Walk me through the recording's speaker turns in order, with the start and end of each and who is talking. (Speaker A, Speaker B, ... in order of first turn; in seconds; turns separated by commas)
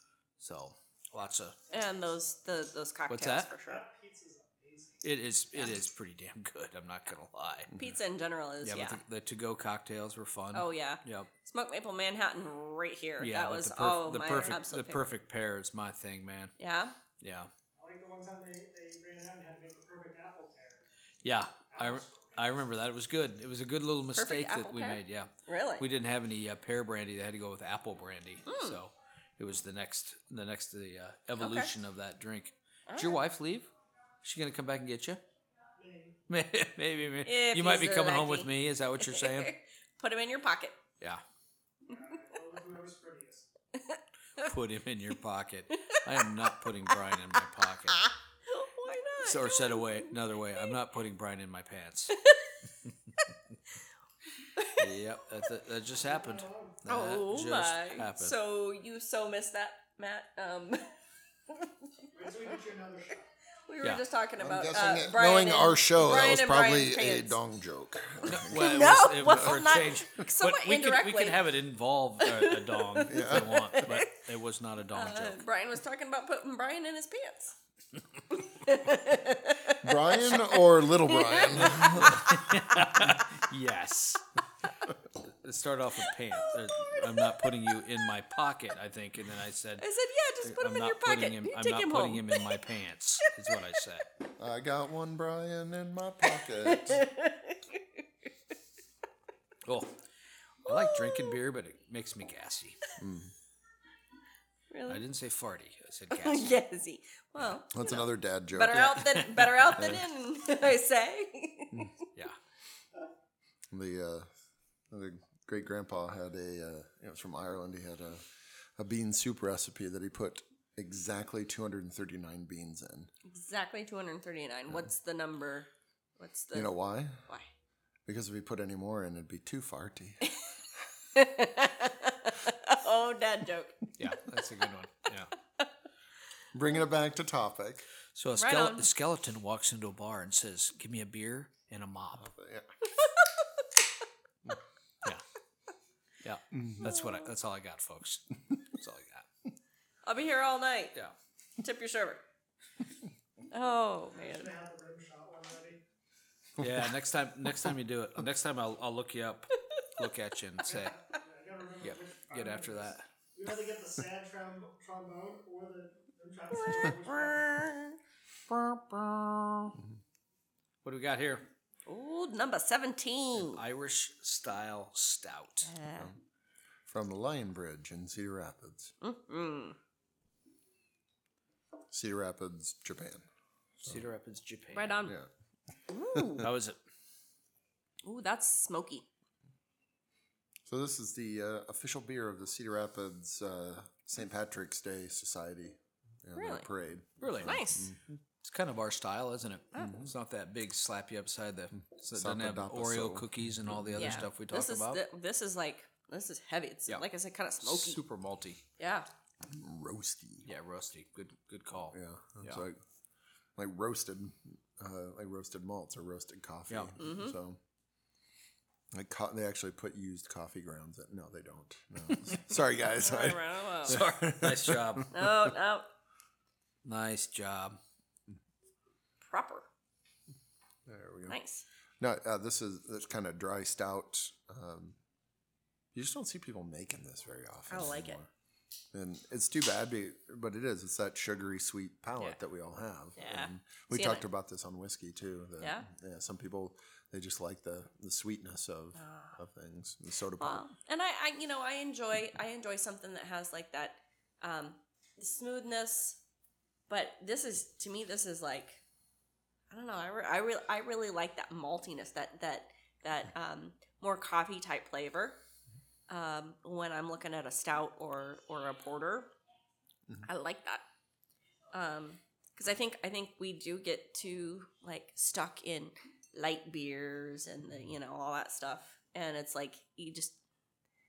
Speaker A: 0.4-1.6, Speaker B: 1.7-2.3, Speaker C: 1.7-3.8, Speaker A: 3.1-3.5, Speaker B: 3.6-5.0, Speaker A: 5.0-7.7, Speaker D: 7.7-8.0, Speaker C: 7.8-9.0, Speaker A: 8.6-11.3, Speaker C: 10.5-15.1, Speaker A: 13.2-16.5, Speaker C: 16.6-16.9, Speaker A: 17.2-17.5, Speaker B: 17.8-20.8, Speaker A: 21.2-33.7, Speaker B: 21.7-22.3, Speaker C: 24.1-25.9, Speaker C: 28.5-28.8, Speaker C: 31.4-31.7, Speaker C: 32.9-33.2, Speaker A: 34.2-35.2, Speaker B: 35.8-36.2, Speaker A: 36.3-39.5, Speaker C: 37.2-40.8, Speaker B: 41.9-43.5, Speaker C: 43.8-44.5, Speaker A: 44.4-48.1, Speaker C: 46.9-47.1, Speaker C: 47.9-50.1, Speaker A: 49.2-52.2, Speaker A: 52.9-53.5, Speaker C: 54.6-54.8, Speaker A: 54.8-58.4, Speaker B: 55.9-56.8, Speaker C: 56.9-60.9, Speaker B: 62.1-63.3, Speaker C: 63.7-67.4, Speaker D: 64.4-69.6, Speaker A: 68.2-75.4, Speaker C: 68.5-71.5, Speaker C: 72.2-74.1, Speaker D: 73.1-73.6, Speaker C: 74.9-77.6, Speaker C: 78.3-82.6, Speaker D: 79.8-82.3, Speaker A: 81.7-84.2, Speaker A: 85.2-89.8, Speaker C: 89.8-92.7, Speaker A: 90.4-94.1, Speaker D: 94.4-97.1, Speaker C: 96.4-98.0, Speaker A: 99.7-99.9, Speaker A: 100.7-102.8, Speaker C: 100.7-101.3, Speaker D: 103.0-103.3, Speaker C: 104.7-105.0, Speaker A: 104.9-106.6, Speaker C: 106.1-111.9, Speaker D: 107.7-109.0, Speaker A: 108.7-109.7, Speaker D: 109.7-110.1, Speaker D: 113.7-114.3, Speaker D: 114.9-123.1, Speaker C: 123.2-125.7, Speaker C: 126.2-126.7, Speaker D: 126.5-127.2, Speaker D: 128.1-130.3, Speaker C: 131.2-133.9, Speaker A: 134.0-135.3, Speaker D: 136.5-137.9, Speaker A: 138.2-142.3, Speaker C: 138.4-138.9, Speaker D: 142.2-142.7, Speaker C: 143.0-143.4, Speaker A: 146.2-149.3, Speaker D: 146.5-146.9, Speaker C: 146.8-147.3, Speaker C: 150.0-150.9, Speaker C: 151.6-152.2, Speaker C: 153.5-154.5, Speaker B: 154.1-155.8, Speaker D: 156.6-156.9, Speaker A: 156.6-160.9, Speaker B: 160.7-167.7, Speaker A: 161.8-163.1, Speaker C: 166.6-168.0, Speaker A: 168.7-169.6, Speaker A: 170.8-171.5, Speaker C: 171.9-173.6, Speaker A: 173.4-175.7, Speaker C: 175.7-176.1, Speaker D: 176.9-178.9, Speaker C: 179.0-179.8, Speaker D: 181.9-183.2, Speaker A: 183.8-185.0, Speaker C: 184.7-185.2, Speaker C: 185.9-186.5, Speaker A: 186.4-186.8, Speaker C: 188.0-189.1, Speaker D: 190.7-198.0, Speaker C: 196.3-196.7, Speaker A: 197.2-197.6, Speaker C: 197.4-197.9, Speaker A: 198.4-205.0, Speaker D: 199.8-200.1, Speaker D: 202.1-204.2, Speaker C: 203.9-208.0, Speaker A: 207.6-208.6, Speaker C: 208.8-209.1, Speaker D: 209.4-210.5, Speaker A: 210.4-212.6, Speaker D: 211.9-212.8, Speaker D: 213.6-217.6, Speaker C: 217.0-217.4, Speaker D: 218.9-225.6, Speaker C: 223.0-224.0, Speaker A: 223.8-225.1, Speaker C: 225.1-225.9, Speaker A: 226.8-227.8, Speaker C: 229.2-229.7, Speaker D: 230.9-231.4, Speaker C: 231.3-231.7, Speaker D: 232.0-235.0, Speaker D: 235.9-238.3, Speaker C: 237.7-238.2, Speaker D: 238.9-250.7, Speaker C: 243.2-244.2, Speaker C: 245.6-245.9, Speaker C: 249.0-249.4, Speaker C: 250.4-256.2, Speaker C: 256.9-258.8, Speaker C: 259.7-265.4, Speaker C: 266.1-269.3, Speaker C: 270.2-270.8, Speaker C: 271.7-280.4